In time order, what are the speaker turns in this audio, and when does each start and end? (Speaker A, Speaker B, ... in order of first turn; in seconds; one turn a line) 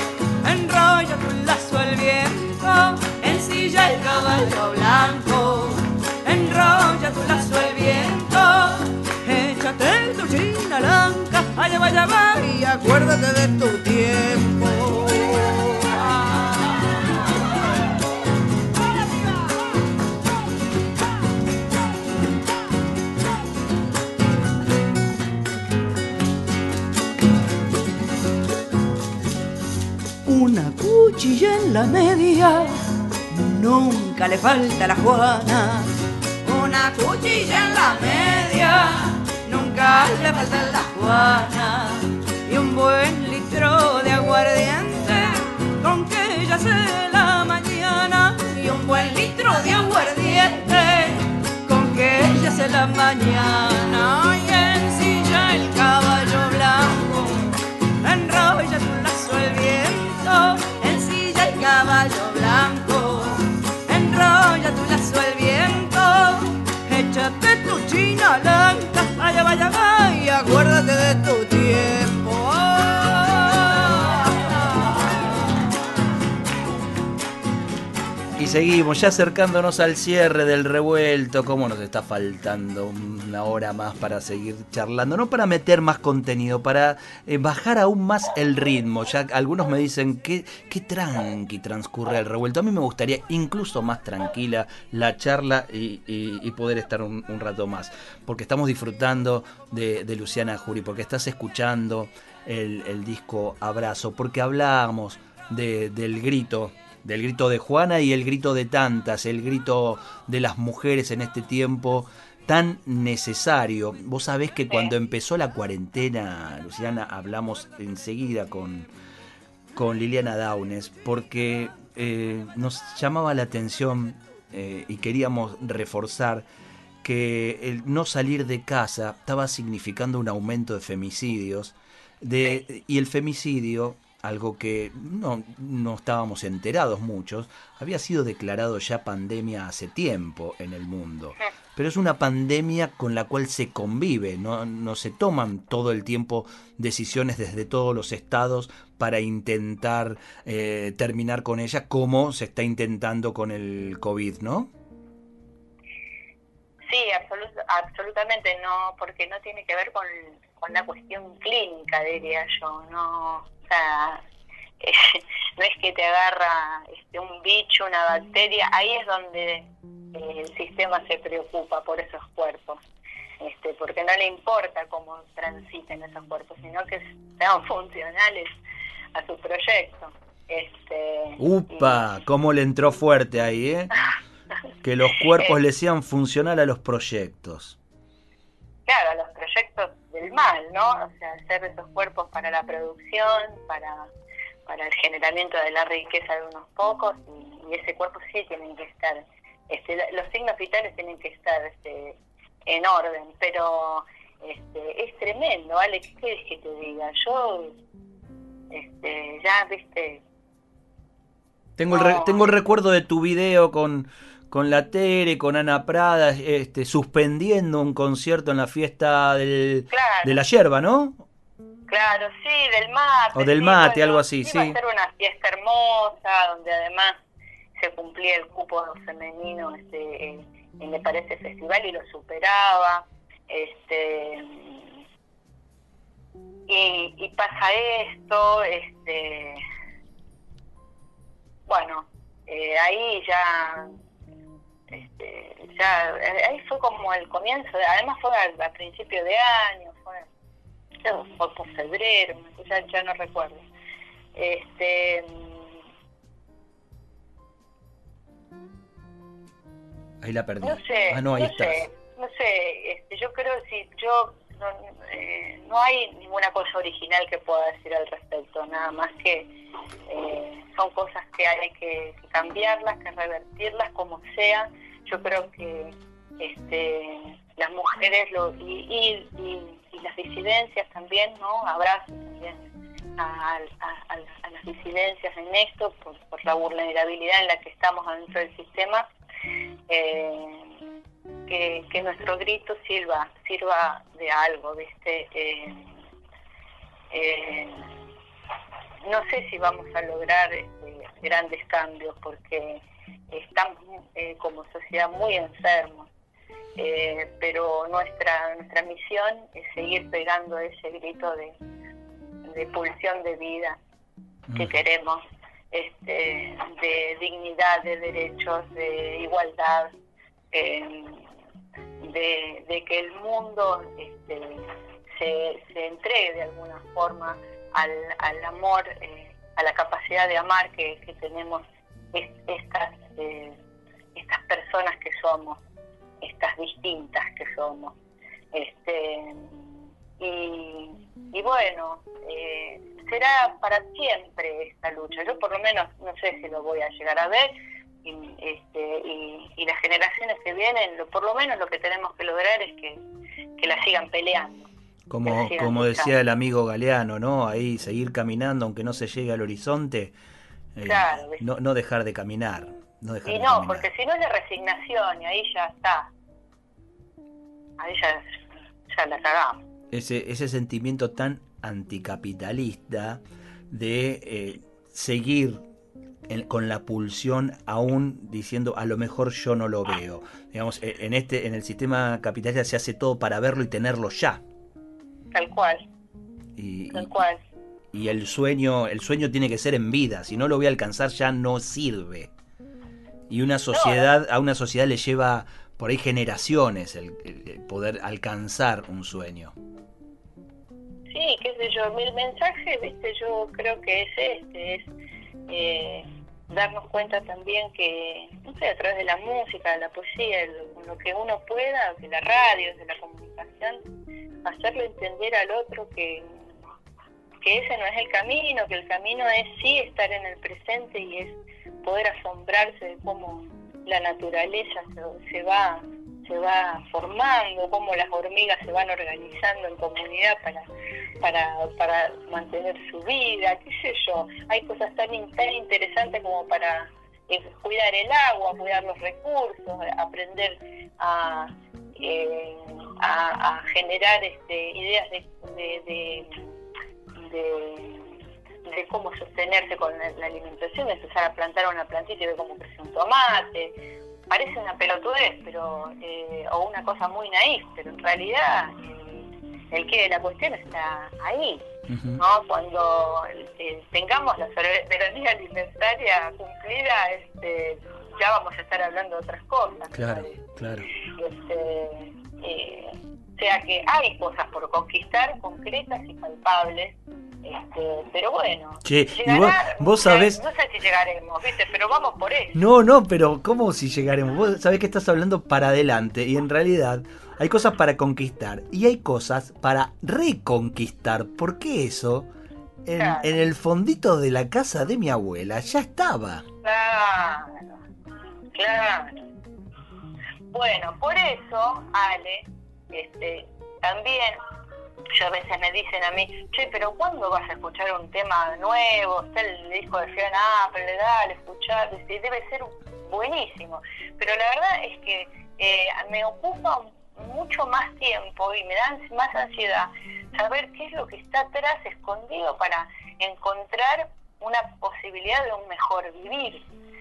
Speaker A: 0.4-16.4
Speaker A: 30.3-35.9
Speaker A: 36.4-74.3
Speaker B: 78.4-118.9
Speaker B: 119.7-126.5
Speaker B: 127.0-154.7
Speaker C: 156.9-164.2
Speaker C: 164.8-172.8
Speaker C: 173.4-178.5
Speaker C: 179.1-182.0
Speaker B: 181.4-183.9
Speaker B: 184.8-187.8
Speaker C: 188.9-194.1
Speaker C: 194.7-207.8
Speaker C: 208.7-210.2
Speaker B: 211.8-221.2
Speaker C: 211.9-212.5
Speaker C: 219.9-220.4
Speaker C: 221.9-227.2
Speaker B: 223.3-224.8
Speaker C: 227.8-234.9
Speaker C: 236.7-239.6
Speaker C: 241.7-243.9
Speaker C: 244.9-250.3
Speaker C: 251.0-253.7
Speaker C: 254.3-255.7
Speaker B: 260.2-261.9
Speaker C: 260.6-269.5
Speaker C: 270.1-289.1
Speaker C: 289.9-290.7
Speaker C: 291.5-295.9
Speaker C: 297.1-297.9
Speaker C: 299.0-306.1
Speaker C: 306.8-311.6
Speaker C: 312.4-313.8
Speaker B: 314.5-314.8
Speaker C: 314.6-319.9
Speaker C: 320.5-321.3
Speaker C: 322.0-333.6
Speaker C: 334.1-335.6
Speaker C: 336.2-338.0
Speaker C: 338.5-339.7
Speaker C: 340.2-347.5
Speaker C: 348.1-353.0
Speaker C: 353.6-354.7
Speaker B: 355.1-360.1
Speaker C: 355.3-356.1
Speaker B: 360.8-363.9
Speaker C: 360.9-361.4
Speaker C: 363.2-366.1
Speaker C: 367.8-368.3
Speaker C: 368.9-369.6
Speaker B: 369.9-375.6
Speaker B: 376.3-384.4
Speaker C: 385.3-385.9
Speaker B: 386.6-387.1
Speaker C: 386.9-387.4
Speaker B: 387.9-392.3
Speaker B: 393.3-399.6
Speaker C: 393.7-394.1
Speaker C: 401.1-404.9
Speaker C: 405.5-413.8
Speaker C: 414.4-416.4
Speaker C: 417.4-430.7
Speaker C: 431.2-446.4
Speaker C: 447.2-453.8
Speaker C: 454.3-461.7
Speaker B: 461.9-462.2
Speaker C: 462.2-470.4
Speaker B: 469.9-470.9
Speaker C: 471.2-482.6
Speaker B: 478.9-480.4
Speaker B: 482.6-492.3
Speaker B: 492.9-496.4
Speaker C: 492.9-493.3
Speaker C: 496.6-497.6
Speaker C: 498.6-499.2
Speaker C: 500.5-504.4
Speaker C: 505.1-526.6